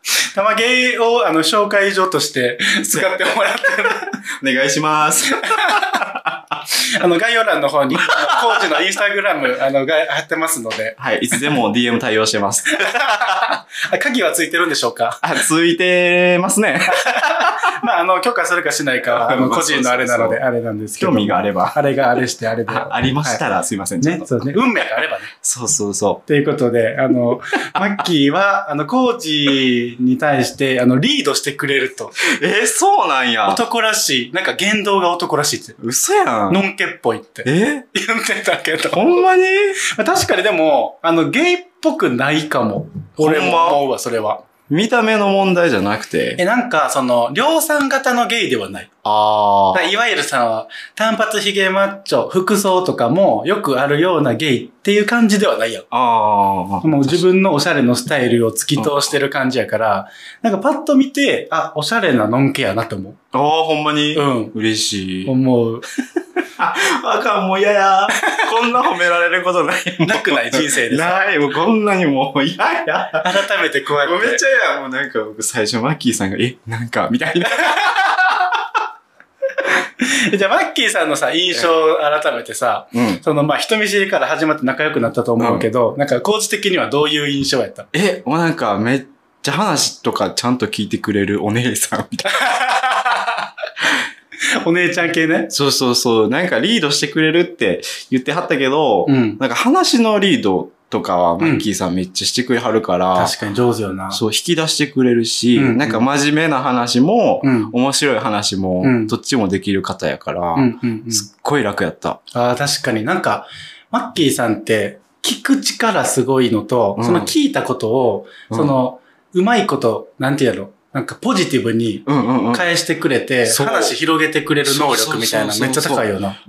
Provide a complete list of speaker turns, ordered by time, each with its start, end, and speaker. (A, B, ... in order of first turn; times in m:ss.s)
0:00.3-0:04.2 A
0:02.9-0:03.2 B
0:04.3-0:06.6 B
0:05.4-0:06.0 A
0:06.8-0:11.4 A
0:07.9-0:08.8 B
0:11.0-0:13.4 B
0:12.8-0:15.3 A
0:15.2-0:17.7 B
0:16.9-0:23.4 A
0:19.1-0:20.4 B
0:21.0-0:21.8 B
0:22.7-0:24.6 B
0:24.0-0:25.3 A
0:25.4-0:26.2 B
0:26.3-0:32.1 A
0:32.2-0:33.6 B
0:33.4-0:35.8 A
0:35.8-0:36.6 B
0:36.5-0:39.2 A
0:37.4-0:37.9 B
0:38.9-0:39.8 B
0:39.8-0:44.4 A
0:43.2-0:43.8 B
0:44.7-0:46.4 B
0:46.4-0:48.9 A
0:49.0-0:49.9 B
0:49.7-0:55.9 A
0:55.9-0:57.2 B
0:56.8-1:03.2 A
0:58.8-0:59.1 B
1:03.3-1:05.3 B
1:04.1-1:04.5 A
1:05.2-1:05.8 A
1:06.6-1:13.4 B
1:10.0-1:11.2 A
1:13.2-1:14.4 A
1:14.0-1:18.5 B
1:20.0-1:27.9 A
1:22.9-1:23.2 B
1:25.4-1:25.7 B
1:27.9-1:32.4 B
1:32.3-1:33.4 A
1:34.6-1:35.5 A
1:35.5-1:43.3 B
1:39.1-1:39.4 A
1:41.4-1:41.6 A
1:43.1-1:44.2 A
1:44.1-1:52.2 B
1:45.6-1:46.0 A
1:47.4-1:47.7 A
1:48.8-1:49.1 A
1:50.6-1:51.3 A
1:52.3-2:06.4 A
1:57.0-1:57.3 B
1:58.5-1:58.8 B
2:02.0-2:02.7 B
2:03.4-2:04.0 B
2:04.6-2:06.1 B